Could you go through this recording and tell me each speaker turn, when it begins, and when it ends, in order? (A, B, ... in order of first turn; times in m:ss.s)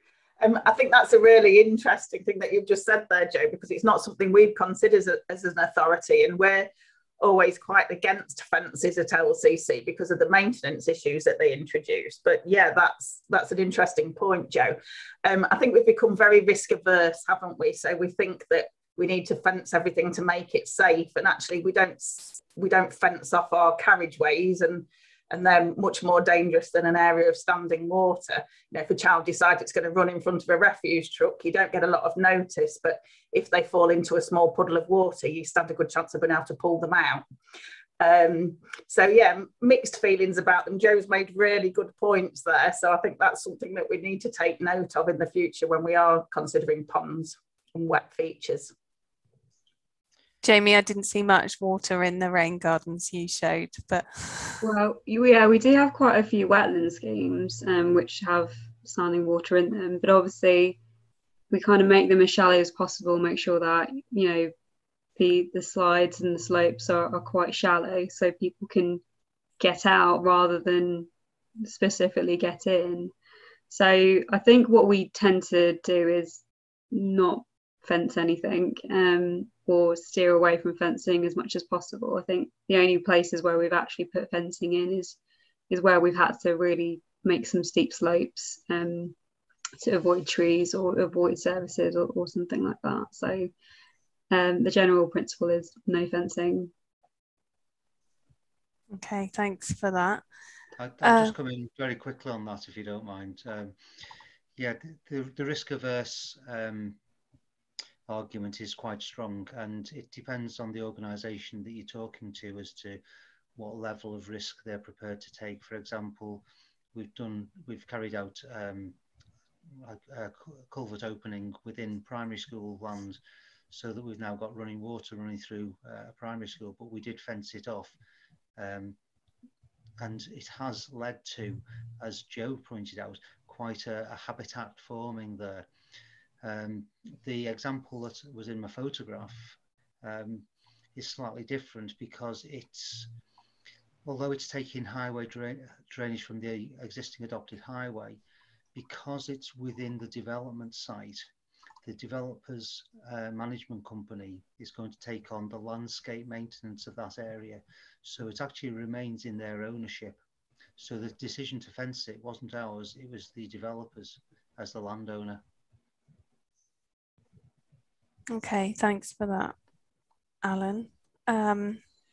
0:00.4-0:37.2 A
0:38.0-0:48.7 A
0:50.4-0:54.6 B
0:54.6-1:00.8 C
1:01.5-1:04.5 C
1:05.2-1:09.0 C
1:09.6-1:11.1 C
1:11.6-1:13.1 C
1:13.7-1:25.2 C
1:25.7-1:29.1 C
1:29.8-1:33.5 C
1:34.3-1:36.7 C
1:38.9-1:40.2 B
1:40.8-1:43.7 D
1:41.0-1:41.3 B
1:44.6-1:47.0 D
1:48.1-1:53.0 D
1:53.6-1:59.0 D
1:59.8-2:03.2 D
2:03.7-2:07.9 D
2:08.6-2:09.0 D
2:10.0-2:15.7 D
2:16.4-2:23.1 D
2:24.0-2:28.2 D
2:28.7-2:31.2 D
2:31.8-2:40.2 D
2:40.8-2:45.4 D
2:48.3-2:49.5 B
2:50.4-2:51.8 B